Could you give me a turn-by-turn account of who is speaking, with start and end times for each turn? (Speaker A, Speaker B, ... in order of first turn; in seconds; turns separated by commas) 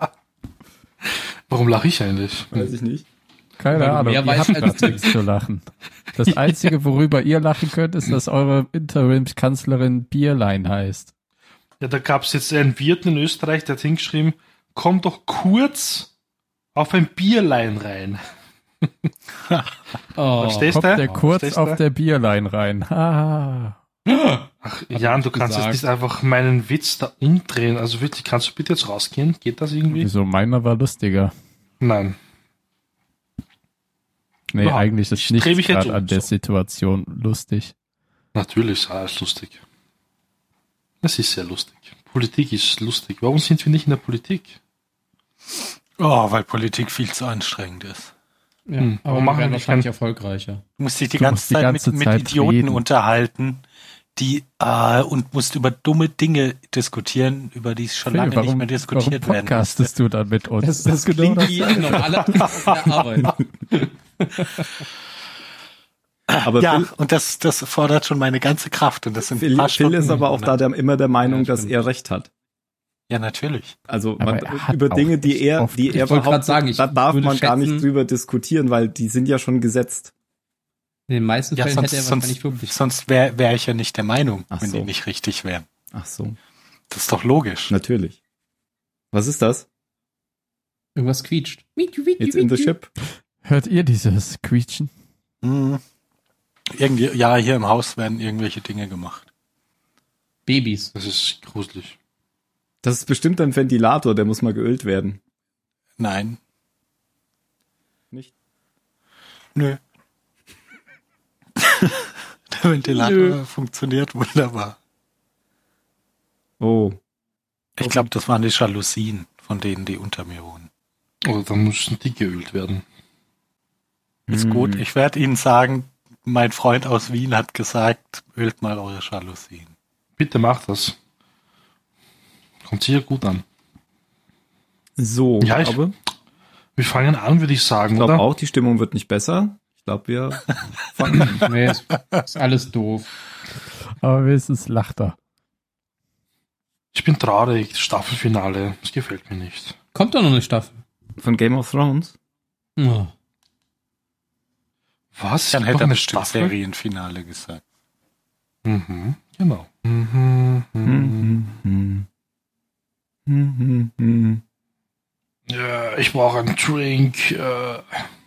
Speaker A: 1.1-2.7, Speaker B: 2.5-3.0, Speaker C: 3.6-11.1, Speaker D: 3.7-5.1, Speaker A: 11.8-16.1, Speaker A: 16.7-18.2, Speaker D: 20.2-21.2, Speaker A: 20.4-21.8, Speaker C: 20.8-23.8, Speaker D: 24.1-25.9, Speaker A: 24.6-30.1, Speaker C: 29.9-31.3, Speaker A: 31.8-32.2, Speaker C: 34.5-37.7, Speaker A: 34.6-36.3, Speaker A: 38.3-39.6, Speaker A: 41.0-44.6, Speaker E: 46.0-48.1, Speaker D: 48.7-50.6, Speaker A: 48.8-49.9, Speaker E: 50.8-53.6, Speaker C: 51.2-52.8, Speaker E: 54.1-59.9, Speaker C: 58.1-62.4, Speaker D: 60.6-64.7, Speaker E: 66.3-70.5, Speaker B: 66.4-66.9, Speaker B: 69.4-72.3, Speaker D: 71.2-71.7, Speaker E: 73.1-73.8, Speaker B: 73.9-80.1, Speaker C: 74.2-76.0, Speaker D: 75.9-77.9, Speaker D: 81.1-82.8, Speaker E: 81.5-85.7, Speaker B: 84.5-84.9, Speaker B: 85.9-86.4, Speaker E: 86.9-87.7, Speaker B: 87.7-88.2, Speaker B: 89.1-89.7, Speaker D: 91.0-92.7, Speaker B: 92.2-92.9, Speaker C: 93.4-94.9, Speaker E: 95.4-95.8, Speaker E: 96.7-99.3, Speaker D: 100.5-100.9, Speaker A: 100.9-102.0, Speaker B: 102.8-105.2, Speaker E: 106.0-106.4, Speaker E: 109.5-109.8, Speaker E: 111.6-114.8, Speaker B: 116.6-117.0, Speaker E: 117.8-120.7, Speaker B: 117.8-118.1, Speaker A: 121.2-122.8, Speaker B: 124.3-124.8, Speaker E: 124.3-129.7, Speaker A: 130.2-130.9, Speaker A: 132.6-133.4, Speaker B: 135.0-135.9, Speaker A: 135.4-135.8, Speaker A: 136.8-138.2, Speaker B: 137.9-141.4, Speaker D: 141.4-143.1, Speaker C: 144.0-145.2, Speaker A: 146.9-149.8, Speaker D: 149.9-150.8, Speaker B: 151.2-152.1, Speaker D: 152.8-153.1, Speaker A: 155.1-156.5, Speaker E: 155.5-157.6, Speaker A: 158.6-161.3, Speaker B: 160.8-162.1, Speaker B: 163.2-164.4, Speaker A: 165.5-168.1